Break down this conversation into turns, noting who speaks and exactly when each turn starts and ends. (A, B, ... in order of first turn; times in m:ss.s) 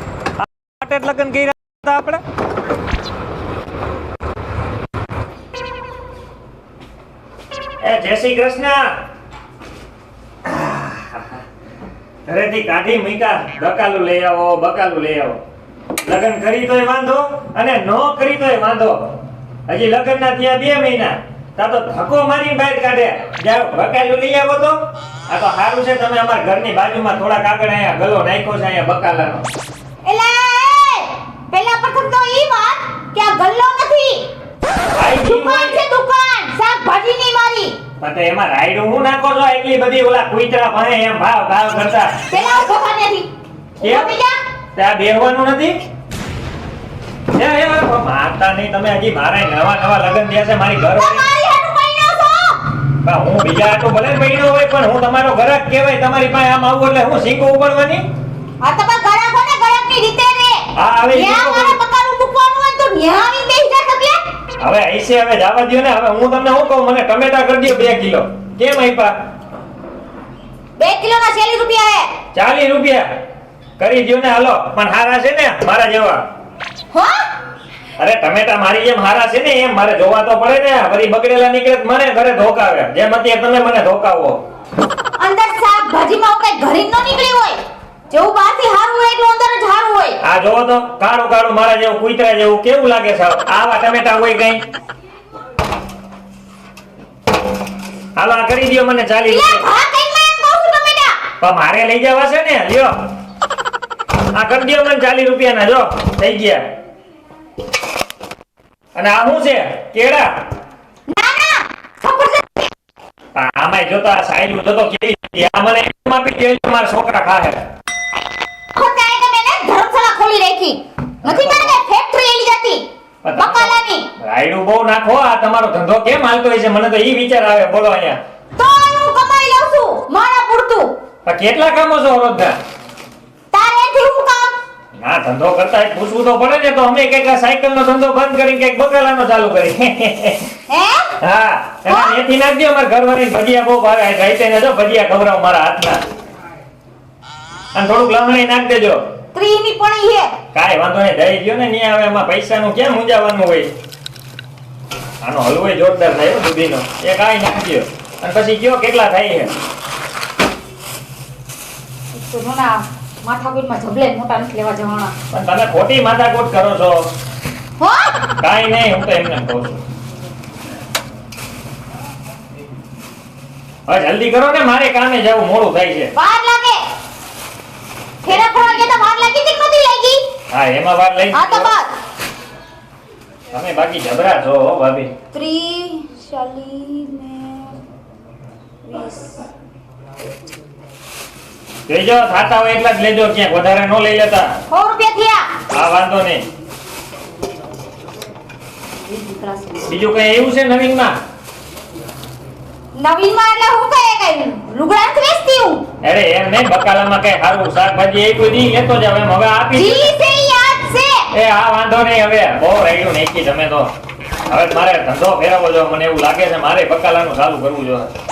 0:00.4-0:02.2 A
0:07.8-0:08.8 A
0:10.4-0:11.4 A
0:12.2-0:15.4 A
0:16.0-0:19.0 A
0:19.7-0:24.8 A
0:25.3-0:29.4 A
0:30.0-0:34.3 B
0:34.9-0:35.8 A
0:35.1-0:37.8 B
0:38.0-0:42.4 A
0:42.3-0:43.3 B
0:43.8-0:44.1 A
0:43.8-0:44.4 B
0:44.7-0:45.8 A
0:47.3-0:51.3 A
0:50.9-0:52.6 B
0:53.0-0:58.0 A
0:58.6-1:04.2 B
1:00.8-1:01.8 A
1:04.6-1:09.1 A
1:10.8-1:12.1 B
1:12.3-1:13.0 A
1:13.8-1:16.2 A
1:16.9-1:17.2 B
1:18.0-1:24.4 A
1:25.2-1:30.2 B
1:30.2-1:34.6 A
1:38.2-1:39.6 A
1:39.2-1:41.2 B
1:41.4-1:43.0 A
1:44.3-1:46.6 A
1:48.9-1:50.3 A
1:51.1-1:52.7 B
1:53.3-1:57.6 A
1:58.7-2:04.1 B
2:01.2-2:01.8 A
2:03.2-2:08.2 A
2:08.6-2:10.9 B
2:11.2-2:12.6 A
2:13.5-2:14.6 B
2:15.0-2:20.4 A
2:20.7-2:21.1 B
2:21.2-2:26.0 A
2:21.8-2:22.2 B
2:27.7-2:29.0 A
2:29.3-2:30.3 B
2:30.5-2:33.7 A
2:35.2-2:39.5 A
2:42.1-2:45.1 B
2:45.3-2:47.0 A
2:47.8-2:48.2 B
2:48.4-2:49.8 A
2:53.9-2:56.1 A
2:56.1-2:56.8 B
2:58.2-3:00.2 B
3:00.5-3:01.7 A
3:01.3-3:01.9 B
3:03.5-3:05.1 A
3:05.3-3:07.7 B
3:08.8-3:09.4 B
3:11.9-3:14.5 A
3:14.7-3:15.6 B
3:15.7-3:16.4 A
3:19.1-3:19.9 B
3:19.9-3:21.2 A
3:22.9-3:25.8 B
3:26.0-3:30.1 A
3:29.7-3:31.3 B
3:31.3-3:33.9 A
3:34.5-3:38.1 A